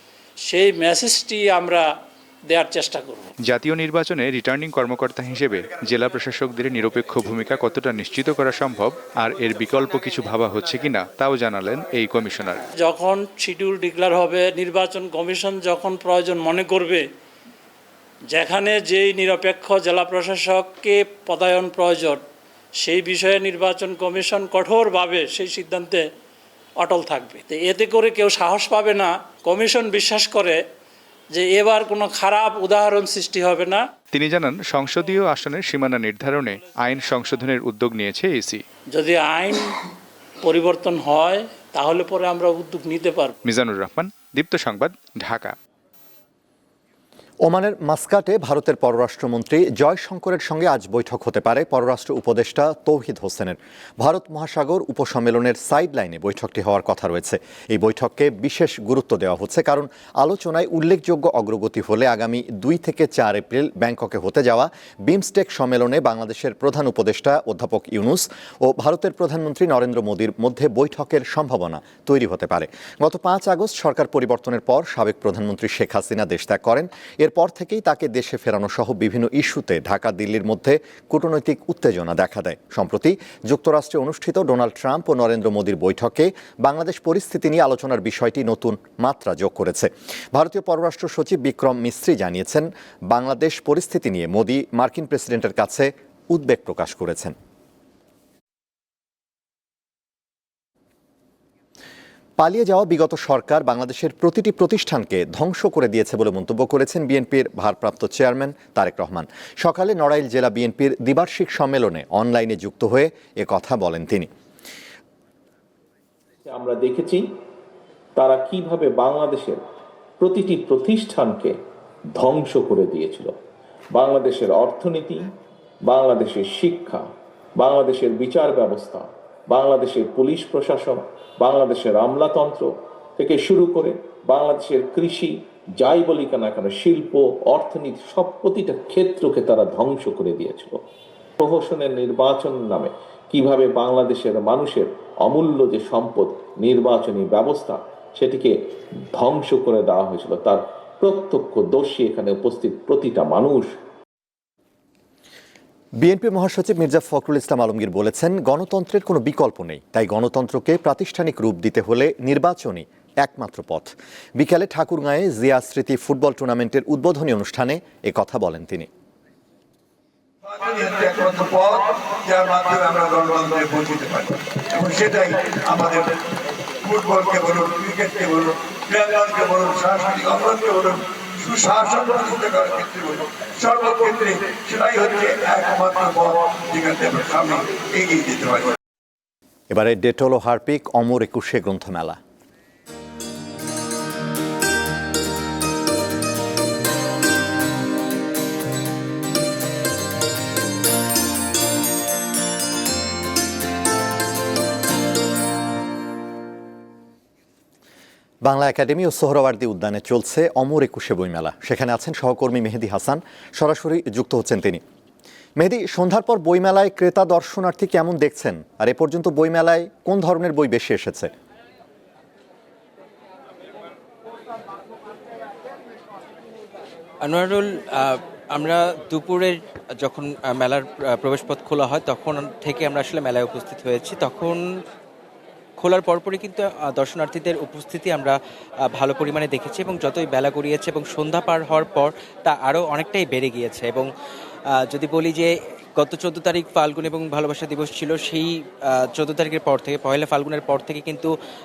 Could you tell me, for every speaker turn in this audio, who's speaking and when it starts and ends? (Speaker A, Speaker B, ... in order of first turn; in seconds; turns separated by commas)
Speaker A: 0.5-1.9, Speaker A: 2.5-3.3, Speaker B: 3.5-12.6, Speaker A: 12.8-17.0, Speaker A: 18.3-22.2, Speaker A: 22.8-26.0, Speaker A: 26.8-30.6, Speaker A: 31.3-33.8, Speaker B: 34.1-38.6, Speaker A: 38.9-39.8, Speaker A: 40.4-43.3, Speaker B: 43.5-45.5, Speaker C: 47.4-97.3, Speaker C: 102.4-114.3, Speaker D: 116.5-117.2, Speaker D: 118.2-119.6, Speaker D: 120.2-121.5, Speaker D: 122.2-123.3, Speaker D: 123.9-125.3, Speaker D: 125.9-140.8, Speaker D: 141.4-148.5, Speaker D: 149.1-153.7, Speaker C: 156.0-168.9, Speaker E: 170.4-176.1, Speaker E: 176.8-188.8, Speaker C: 189.7-192.2, Speaker C: 208.4-214.8, Speaker C: 215.6-221.3, Speaker F: 227.2-234.6, Speaker F: 235.8-238.3, Speaker F: 238.9-244.1, Speaker F: 244.9-248.5, Speaker F: 249.0-251.3